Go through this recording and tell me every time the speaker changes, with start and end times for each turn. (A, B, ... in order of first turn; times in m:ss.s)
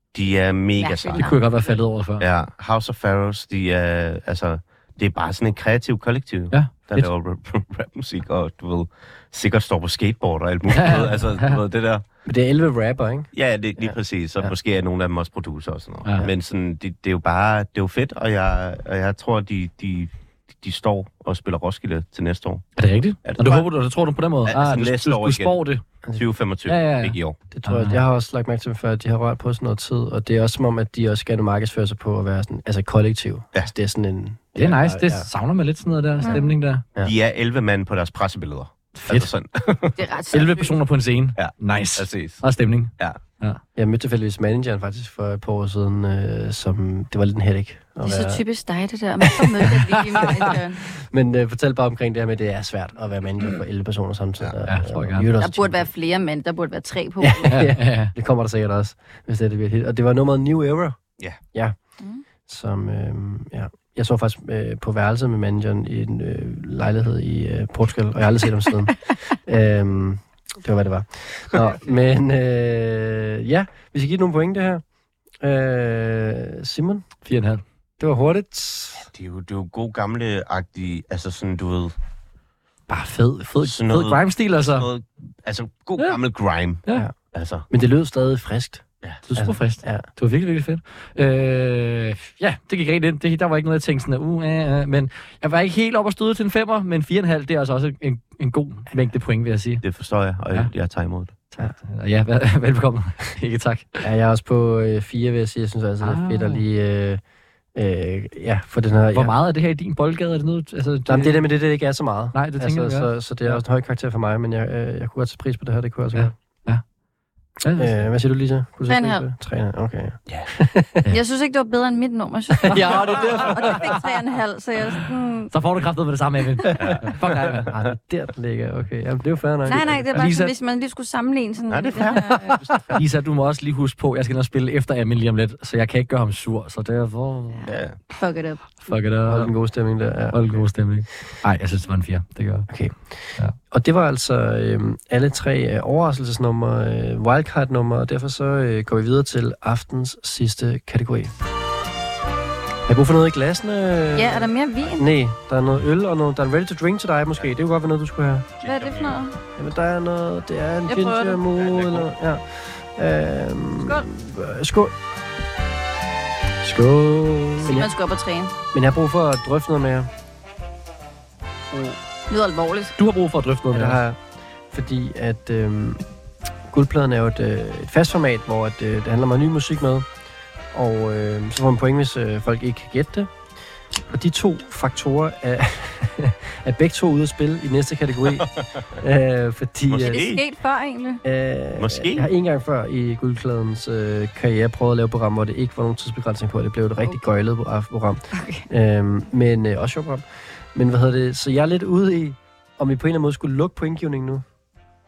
0:00.1-0:01.4 A
0:00.8-0:01.7 B
0:01.2-0:02.2 C
0:02.2-0:12.0 A
0:06.5-0:07.1 C
0:10.7-0:11.6 C
0:12.2-0:14.0 D
0:13.3-0:22.7 A
0:22.8-0:25.8 C
0:23.2-0:23.6 A
0:24.4-0:25.6 A
0:26.2-0:27.4 A
0:26.7-0:28.0 C
0:27.5-0:35.3 D
0:34.6-0:36.8 C
0:36.2-0:36.5 B
0:37.0-0:40.0 A
0:38.9-0:39.3 C
0:40.0-0:40.8 B
0:40.3-0:43.6 C
0:41.4-0:42.4 A
0:43.8-0:48.4 D
0:48.0-0:50.8 B
0:49.5-0:55.9 D
0:54.7-0:55.3 C
0:55.4-0:57.6 B
0:57.2-1:01.0 D
0:57.5-0:58.1 C
1:02.4-1:14.8 D
1:15.4-1:17.0 D
1:17.2-1:17.6 C
1:18.0-1:19.0 D
1:19.1-1:21.9 A
1:22.9-1:24.9 C
1:23.6-1:27.6 A
1:27.7-1:30.0 D
1:29.2-1:39.8 C
1:39.8-1:41.4 A
1:41.5-1:44.0 C
1:44.0-1:47.2 D
1:46.0-1:46.6 C
1:47.7-1:49.3 D
1:49.1-1:51.4 C
1:51.1-1:56.3 D
1:52.3-1:53.6 C
1:56.1-1:56.8 C
1:57.6-1:58.0 C
1:57.8-2:01.0 D
1:58.9-1:59.2 B
2:01.1-2:05.5 B
2:02.7-2:03.6 D
2:02.7-2:04.0 C
2:05.5-2:07.7 C
2:06.8-2:07.0 A
2:07.6-2:10.1 D
2:09.6-2:12.6 B
2:09.7-2:10.5 C
2:11.7-2:12.9 A
2:12.9-2:17.6 C
2:17.5-2:18.9 B
2:17.6-2:18.0 A
2:18.8-2:19.5 C
2:19.2-2:20.7 D
2:20.3-2:22.7 C
2:22.7-2:31.3 D
2:32.8-2:38.5 D
2:34.1-2:35.0 B
2:38.6-2:39.2 A
2:38.6-2:39.4 B
2:39.6-2:44.9 D
2:40.9-2:41.4 B
2:41.6-2:42.1 A
2:46.6-2:47.7 C
2:47.6-2:48.5 B
2:47.6-2:47.9 D
2:48.7-2:50.1 D
2:52.3-2:52.9 B
2:53.0-2:54.0 C
2:53.7-2:54.2 D
2:54.7-2:56.0 D
2:56.7-3:00.1 D
3:00.7-3:03.3 D
3:04.1-3:10.2 D
3:09.9-3:10.4 A
3:10.0-3:11.2 B
3:11.2-3:24.4 D
3:11.8-3:12.2 A
3:18.3-3:18.7 B